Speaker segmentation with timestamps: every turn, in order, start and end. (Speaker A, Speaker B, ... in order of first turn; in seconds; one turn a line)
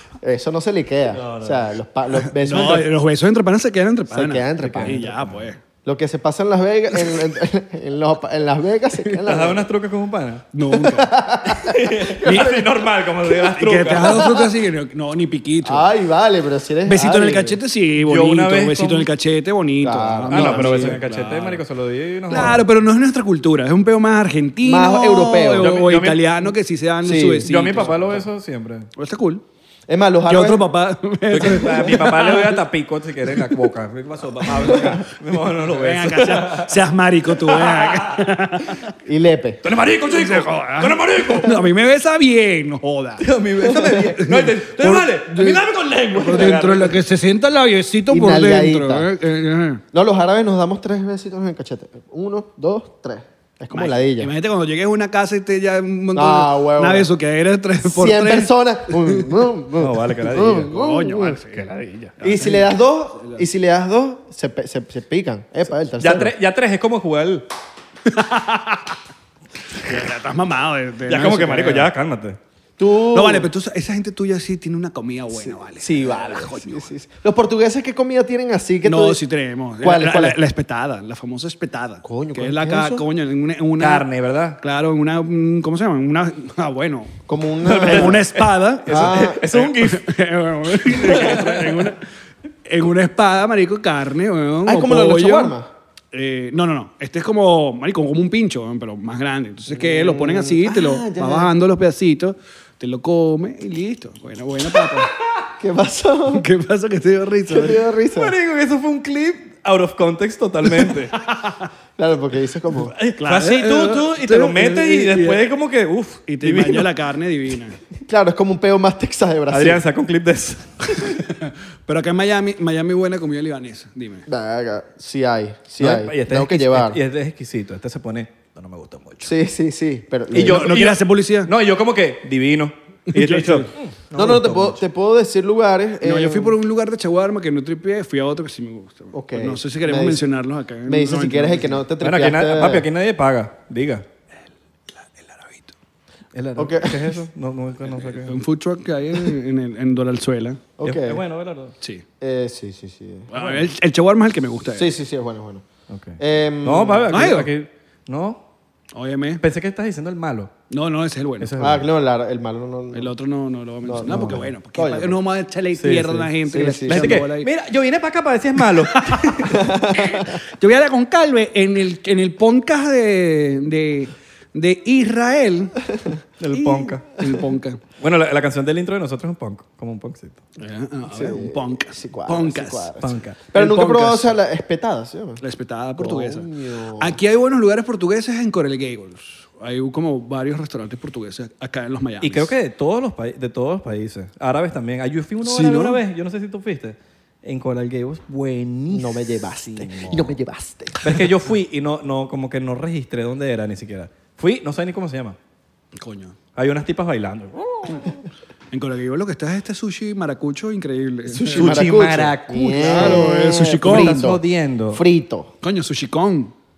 Speaker A: 0.2-2.9
Speaker B: 1.1-1.7
Speaker C: 2.4-5.6
Speaker A: 4.1-5.1
Speaker B: 4.7-5.5
Speaker A: 5.8-9.7
Speaker B: 9.2-10.5
Speaker C: 10.5-11.1
Speaker A: 10.8-12.8
Speaker B: 11.5-14.3
Speaker C: 13.5-15.9
Speaker A: 14.1-14.4
Speaker A: 15.6-17.6
Speaker C: 16.9-21.6
Speaker B: 18.0-19.1
Speaker A: 19.8-21.0
Speaker B: 20.3-22.6
Speaker C: 22.3-28.2
Speaker A: 24.6-25.7
Speaker B: 25.5-26.4
Speaker A: 27.0-28.1
Speaker B: 27.5-28.9
Speaker C: 29.0-29.4
Speaker A: 29.9-30.6
Speaker C: 30.3-32.6
Speaker B: 31.3-36.8
Speaker C: 33.3-33.7
Speaker A: 34.7-35.0
Speaker C: 35.6-38.8
Speaker B: 37.3-38.3
Speaker A: 39.0-39.6
Speaker B: 39.6-41.6
Speaker C: 40.0-45.6
Speaker B: 43.2-47.0
Speaker A: 43.7-44.0
Speaker C: 46.1-49.8
Speaker A: 48.1-49.1
Speaker A: 49.9-54.3
Speaker C: 53.7-59.3
Speaker A: 56.1-57.1
Speaker A: 57.8-61.4
Speaker B: 59.8-60.8
Speaker C: 60.7-63.4
Speaker B: 61.5-62.1
Speaker A: 62.2-66.3
Speaker B: 66.0-67.5
Speaker C: 68.1-69.0
Speaker C: 69.7-71.9
Speaker B: 71.1-72.4
Speaker A: 72.8-73.5
Speaker C: 73.1-76.9
Speaker A: 75.3-79.2
Speaker C: 78.8-84.1
Speaker A: 79.8-80.4
Speaker A: 82.0-83.0
Speaker B: 83.8-84.6
Speaker C: 84.6-87.2
Speaker A: 87.3-88.2
Speaker B: 87.7-90.0
Speaker C: 87.7-92.0
Speaker A: 88.9-89.4
Speaker B: 90.9-91.9
Speaker C: 92.7-95.6
Speaker A: 94.7-95.7
Speaker C: 96.1-105.1
Speaker A: 99.7-101.5
Speaker A: 105.6-106.5
Speaker C: 106.3-107.8
Speaker A: 107.5-108.3
Speaker B: 108.1-111.2
Speaker C: 110.7-111.7
Speaker A: 112.0-112.9
Speaker B: 112.8-116.9
Speaker C: 113.2-115.5
Speaker C: 116.3-117.8
Speaker A: 118.1-119.8
Speaker B: 119.5-121.2
Speaker C: 121.3-124.3
Speaker A: 124.3-127.0
Speaker B: 125.8-129.3
Speaker A: 129.2-130.7
Speaker B: 130.3-134.8
Speaker C: 130.3-131.5
Speaker C: 133.1-133.7
Speaker A: 134.2-136.6
Speaker C: 136.0-141.8
Speaker A: 139.1-140.2
Speaker A: 140.9-142.9
Speaker B: 142.0-144.1
Speaker C: 145.0-145.7
Speaker B: 146.3-148.4
Speaker A: 146.6-147.1
Speaker C: 148.2-150.6
Speaker A: 150.8-151.2
Speaker B: 150.8-151.7
Speaker A: 152.2-153.3
Speaker C: 153.3-154.9
Speaker B: 153.3-153.6
Speaker A: 154.8-155.7
Speaker B: 155.9-158.4
Speaker A: 156.2-157.1
Speaker C: 157.1-157.5
Speaker C: 158.9-159.4
Speaker B: 159.4-160.5
Speaker C: 160.7-161.5
Speaker B: 161.4-161.9
Speaker A: 161.6-163.1
Speaker C: 162.9-167.5
Speaker A: 163.9-165.2
Speaker B: 164.1-164.5
Speaker B: 165.8-166.3
Speaker A: 166.5-167.3
Speaker B: 166.9-169.8
Speaker C: 168.8-175.8
Speaker A: 169.5-170.3
Speaker B: 176.4-177.1
Speaker C: 176.6-177.8
Speaker B: 178.0-180.4
Speaker C: 180.6-182.9
Speaker A: 181.1-185.4
Speaker B: 183.0-183.6
Speaker C: 183.5-184.3
Speaker C: 185.4-192.5
Speaker A: 186.0-187.2
Speaker B: 192.2-200.3
Speaker C: 195.4-196.0
Speaker A: 198.9-201.0
Speaker B: 201.0-205.4
Speaker C: 206.0-206.4
Speaker B: 206.6-208.2
Speaker C: 208.7-211.8
Speaker A: 211.3-215.5
Speaker B: 211.6-213.3
Speaker C: 212.8-214.3
Speaker B: 213.8-215.0
Speaker C: 215.6-216.5